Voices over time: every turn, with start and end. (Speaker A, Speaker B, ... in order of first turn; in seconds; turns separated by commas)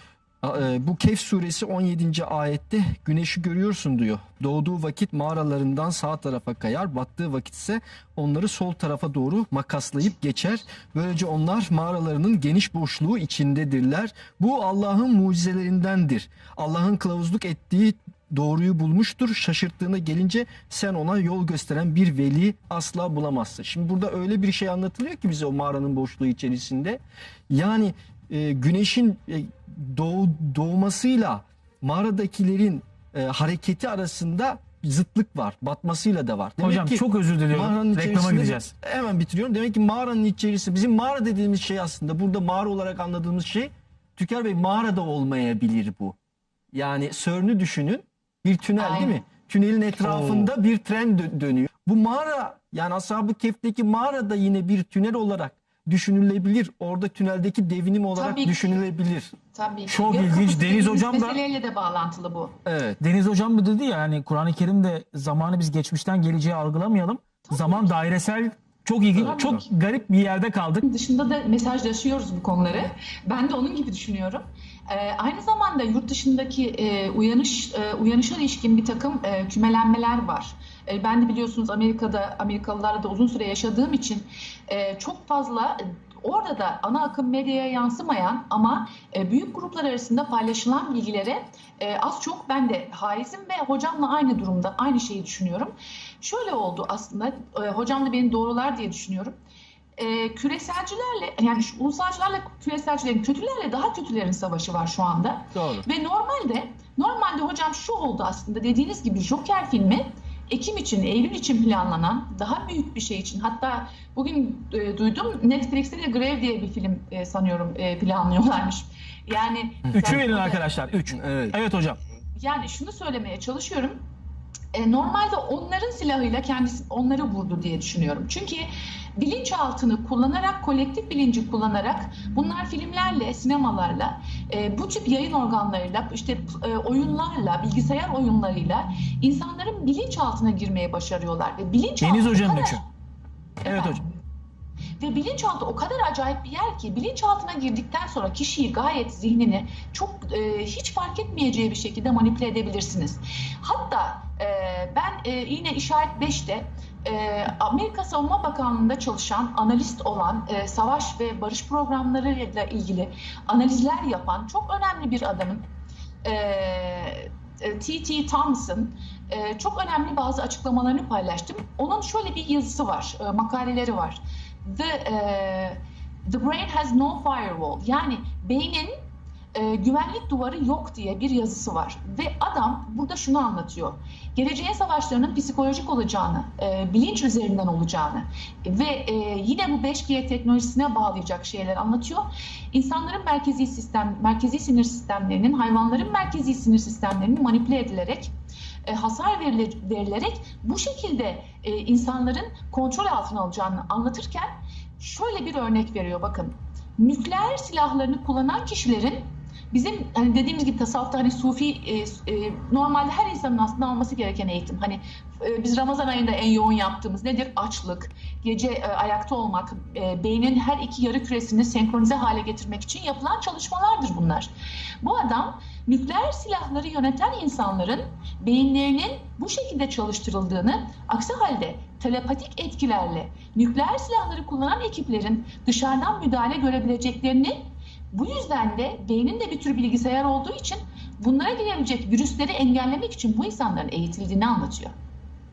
Speaker A: 0.4-46.1, Speaker B: 36.6-38.7, Speaker A: 46.7-59.3, Speaker C: 48.8-49.2, Speaker B: 50.0-50.5, Speaker C: 58.1-58.8, Speaker C: 59.5-62.6, Speaker B: 59.9-61.4, Speaker A: 62.6-63.0, Speaker B: 63.0-70.8, Speaker C: 67.5-67.9, Speaker A: 69.1-69.6, Speaker C: 70.8-99.3, Speaker C: 100.0-120.6, Speaker A: 105.5-105.9, Speaker A: 119.9-120.2, Speaker B: 119.9-122.0, Speaker A: 121.1-121.6, Speaker C: 122.3-124.0, Speaker C: 124.7-142.8, Speaker B: 142.0-142.8, Speaker C: 143.6-144.0, Speaker B: 143.6-144.0, Speaker C: 145.0-165.7, Speaker C: 166.2-179.0, Speaker C: 179.5-198.3, Speaker C: 198.8-244.9